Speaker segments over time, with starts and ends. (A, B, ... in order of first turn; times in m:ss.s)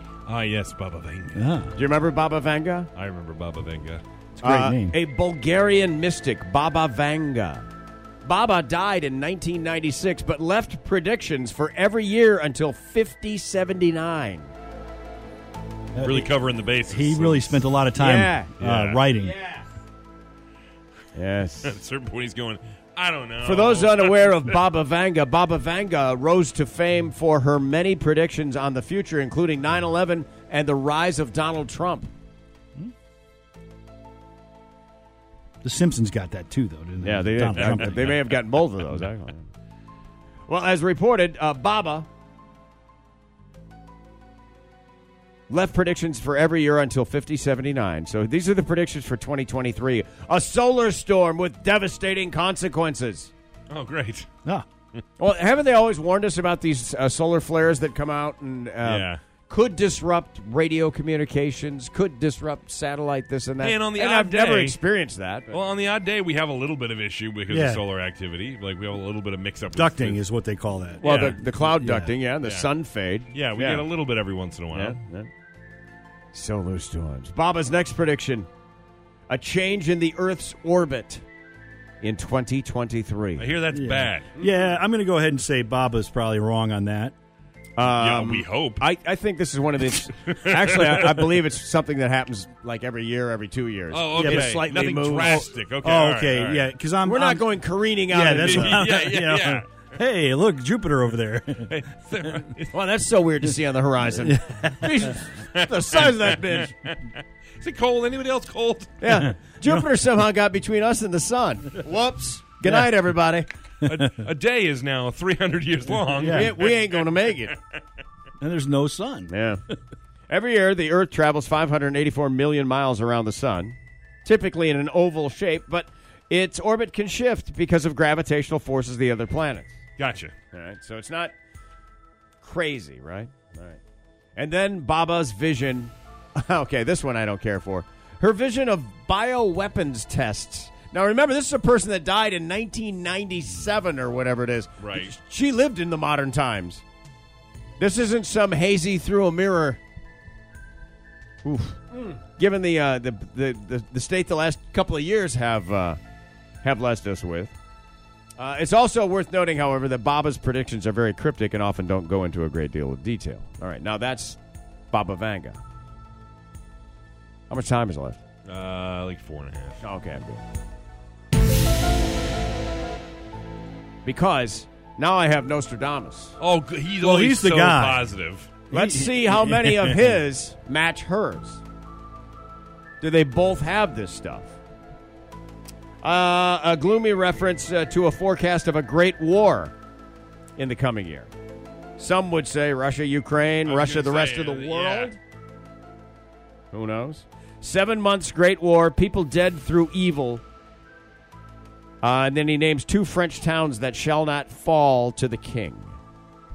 0:00.2-0:01.4 A
0:01.3-0:01.7 B
0:01.7-0:02.9 C
0:03.0-0:04.0 A
0:04.4-0:05.0 B
0:04.4-0:07.7 C
0:08.2-0:14.5 C
0:15.9-0:16.3 B
0:16.0-0:17.6 A
0:16.9-0:19.4 B
0:18.0-0:18.5 C
0:18.6-0:19.0 A
0:19.2-0:19.6 C
0:21.1-0:21.8 C
0:21.6-0:24.6 A
0:23.4-0:32.1 C
0:35.6-0:38.2 B
0:37.0-0:39.5 C
0:37.5-0:38.2 A
0:40.5-0:42.1 C
0:45.5-0:53.3 C
0:53.7-0:54.3 A
0:55.2-1:05.6 C
0:58.8-0:59.2 A
1:03.6-1:04.8 A
1:05.5-1:10.2 A
1:07.5-1:07.8 B
1:09.7-1:12.1 B
1:11.0-1:13.9 C
1:11.0-1:11.4 A
1:12.4-1:12.7 A
1:13.3-1:15.0 A
1:14.7-1:15.3 C
1:16.3-1:18.5 C
1:19.3-1:21.2 C
1:22.0-1:23.5 C
1:23.4-1:24.3 A
1:23.7-1:27.1 B
1:27.8-1:35.5 C
1:27.8-1:28.8 A
1:30.3-1:31.3 A
1:33.9-1:36.7 A
1:34.2-1:34.6 B
1:35.2-1:37.5 B
1:37.0-1:39.0 C
1:38.1-1:41.8 B
1:38.3-1:39.7 A
1:41.7-1:42.7 A
1:42.7-1:46.7 C
1:44.2-1:45.1 B
1:45.5-1:48.9 A
1:49.0-1:53.5 C
1:49.1-1:49.9 B
1:53.8-1:56.9 A
1:56.2-1:56.5 B
1:56.2-1:57.5 C
1:58.4-1:59.3 B
1:59.3-1:59.6 C
2:00.3-2:09.8 C
2:10.0-2:10.3 A
2:10.5-2:11.3 C
2:12.4-2:13.8 C
2:14.4-2:26.8 C
2:24.8-2:25.1 A
2:27.8-2:29.8 C
2:31.4-2:36.0 C
2:36.6-2:37.5 C
2:38.4-2:44.4 C
2:44.9-2:45.6 C
2:47.5-2:48.2 C
2:48.4-2:49.8 A
2:49.8-2:50.4 C
2:54.0-2:56.4 C
2:56.4-2:58.6 A
2:57.0-2:58.1 B
2:58.7-3:00.2 B
2:58.7-3:01.6 C
3:03.0-3:04.6 C
3:06.0-3:09.7 C
3:10.6-3:11.3 C
3:12.0-3:15.2 C
3:13.6-3:15.1 A
3:16.7-3:20.4 C
3:22.0-3:26.0 C